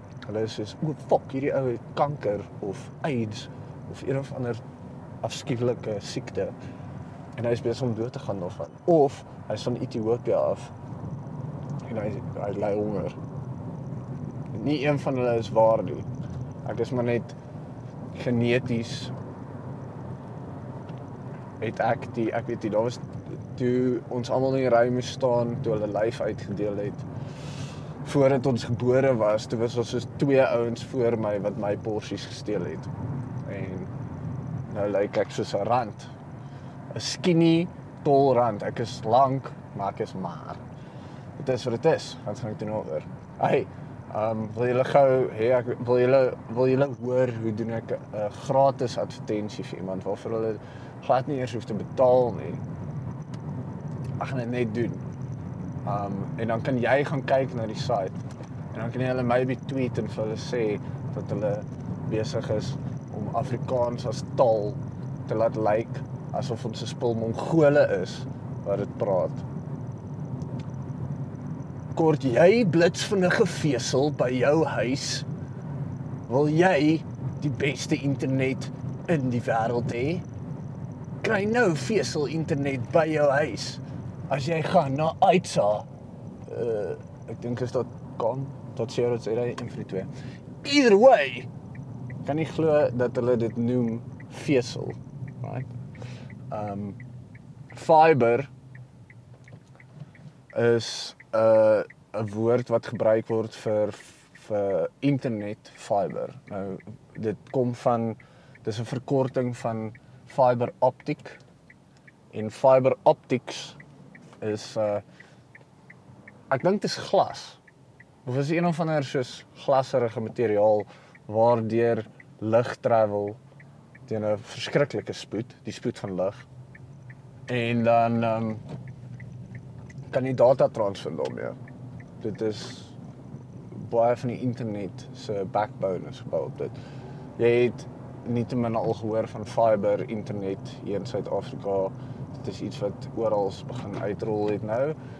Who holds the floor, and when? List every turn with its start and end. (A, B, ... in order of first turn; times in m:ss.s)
0:00.2-0:04.6 A
0:05.2-0:06.5 A
0:07.4-0:10.7 A
0:11.9-0:13.2 A
0:14.5-0:16.1 A
0:16.6-0:17.4 A
0:18.1-0:19.2 A
0:21.6-0:27.1 A
0:28.0-0:32.9 A
0:33.4-0:33.9 A
0:34.7-0:36.1 A
0:36.9-0:40.6 A
0:41.4-0:52.6 A
0:54.2-0:55.0 A
0:55.9-0:58.2 A
0:58.7-1:09.4 A
1:12.0-1:15.3 A
1:16.3-1:20.2 A
1:21.2-1:25.9 A
1:26.5-1:30.1 A
1:30.6-1:31.5 A
1:32.2-1:35.7 A
1:36.5-1:37.0 A
1:37.7-1:38.5 A
1:40.5-1:51.4 A
1:52.3-1:53.8 A
1:54.4-1:55.0 A
1:56.5-1:57.6 A
1:58.2-2:03.4 A
2:04.1-2:06.5 A
2:07.5-2:08.6 A
2:10.1-2:11.6 A
2:12.2-2:13.0 A
2:13.7-2:16.7 A
2:17.4-2:25.0 A